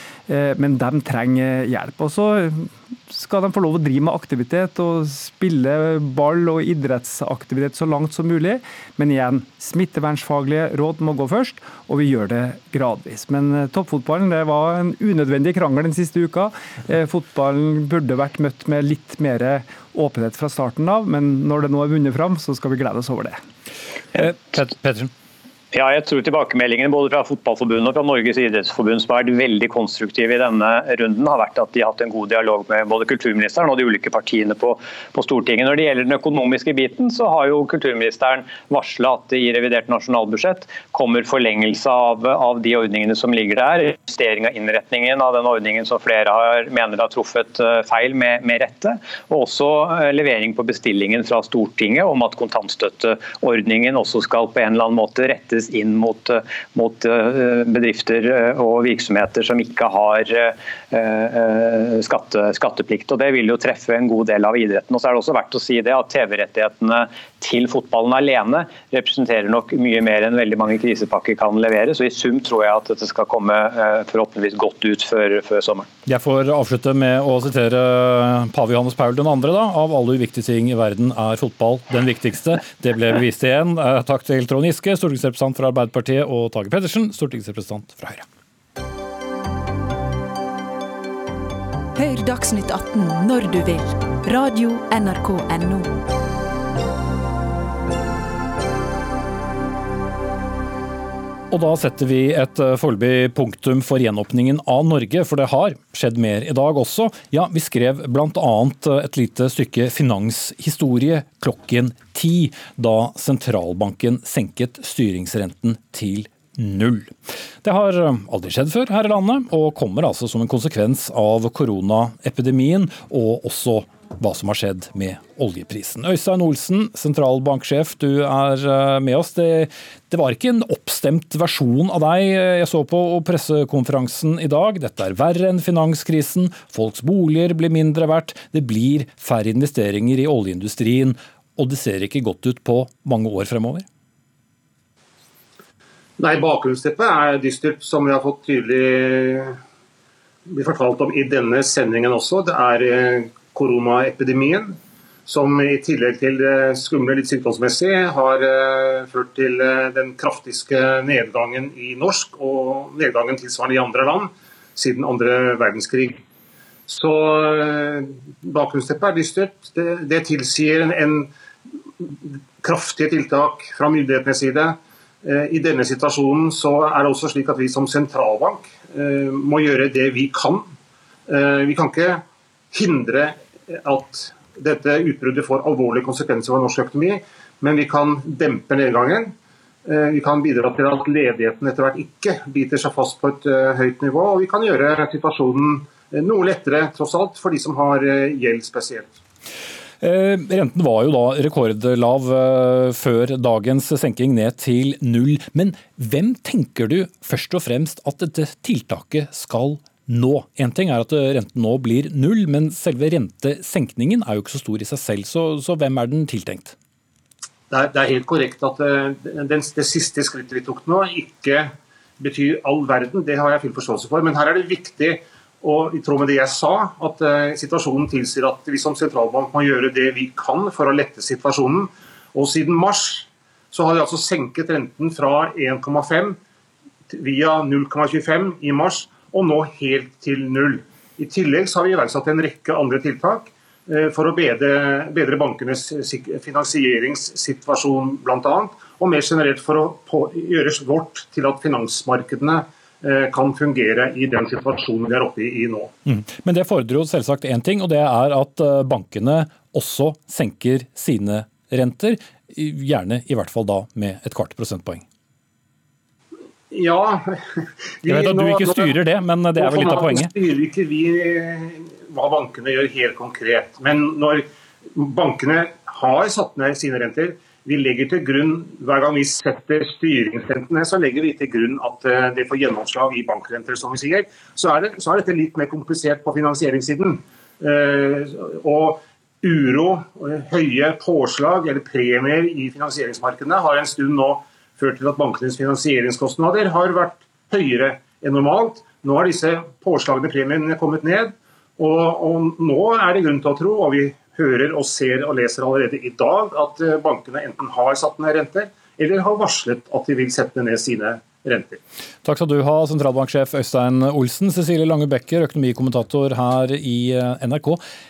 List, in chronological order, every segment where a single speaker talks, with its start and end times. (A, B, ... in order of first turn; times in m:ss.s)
0:00.3-0:23.4 A
0:24.2-0:25.1 B
0:25.7-1:15.9 C
1:16.0-1:28.2 B
1:31.9-1:35.9 D
1:41.5-2:23.8 B
2:26.2-2:29.6 E
2:30.5-2:46.2 E
2:46.9-2:51.3 E
2:52.3-3:00.7 E
3:01.3-3:09.3 E
3:09.8-3:19.1 E
3:20.0-3:36.7 B
3:37.7-3:56.4 E
3:57.1-4:15.9 E
4:16.1-4:25.0 B
4:26.7-4:29.0 E
4:28.0-4:30.3 B
4:29.6-5:11.8 E
5:12.2-5:17.8 B